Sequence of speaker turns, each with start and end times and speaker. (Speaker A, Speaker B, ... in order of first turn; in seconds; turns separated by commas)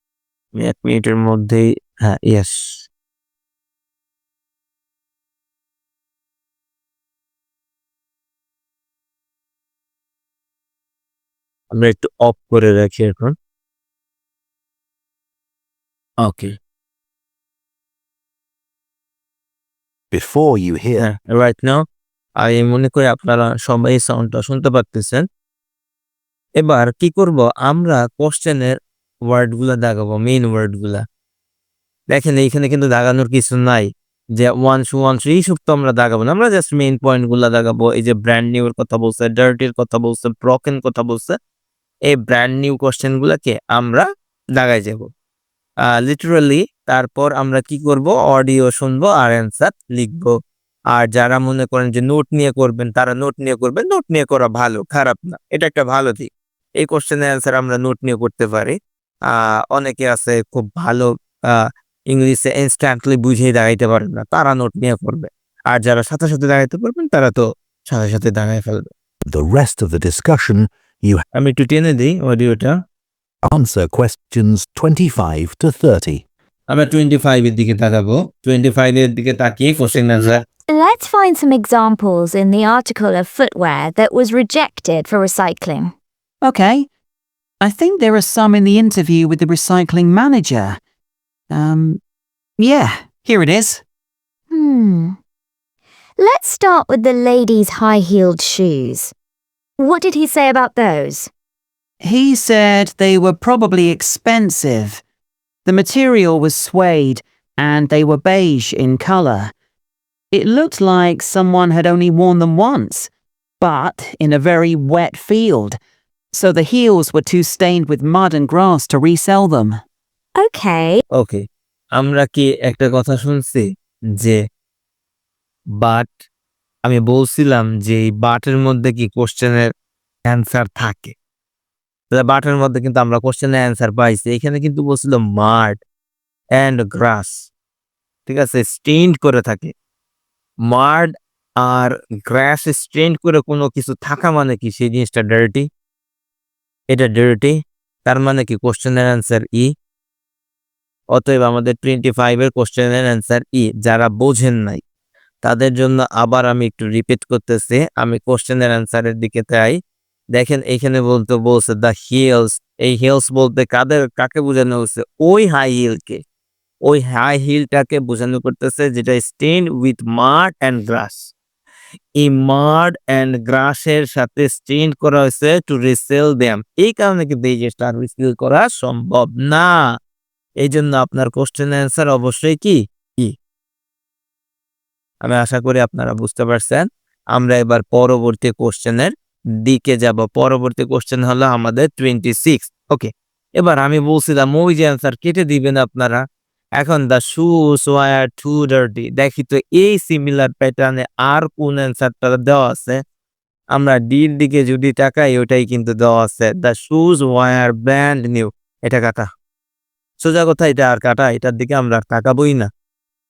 Speaker A: 0.5-2.9, Speaker A: 11.7-13.3, Speaker A: 16.2-16.6, Speaker B: 20.1-21.0, Speaker A: 21.0-21.8, Speaker A: 22.4-25.2, Speaker A: 26.6-31.0, Speaker A: 32.1-41.3, Speaker A: 42.1-45.1, Speaker A: 45.8-50.3, Speaker A: 50.9-58.8, Speaker A: 59.3-68.9, Speaker B: 69.3-71.2, Speaker A: 71.3-72.8, Speaker B: 73.4-76.2, Speaker A: 76.7-80.4, Speaker C: 80.7-85.9, Speaker D: 86.4-86.9, Speaker D: 87.6-90.8, Speaker D: 91.5-92.0, Speaker D: 92.6-93.8, Speaker C: 94.5-95.2, Speaker C: 96.2-99.1, Speaker C: 99.8-101.3, Speaker D: 102.0-105.0, Speaker D: 105.6-109.5, Speaker D: 110.3-115.8, Speaker D: 116.3-119.8, Speaker C: 120.4-121.0, Speaker A: 121.1-124.4, Speaker A: 125.8-126.1, Speaker A: 126.8-129.7, Speaker A: 130.2-131.1, Speaker A: 132.1-135.8, Speaker A: 136.5-137.5, Speaker A: 138.2-139.7, Speaker A: 140.6-145.7, Speaker A: 146.9-149.7, Speaker A: 151.1-154.8, Speaker A: 155.4-159.8, Speaker A: 160.3-166.2, Speaker A: 166.8-171.3, Speaker A: 172.2-179.9, Speaker A: 180.6-183.3, Speaker A: 185.2-196.2, Speaker A: 196.8-203.0, Speaker A: 203.7-209.3, Speaker A: 210.2-212.7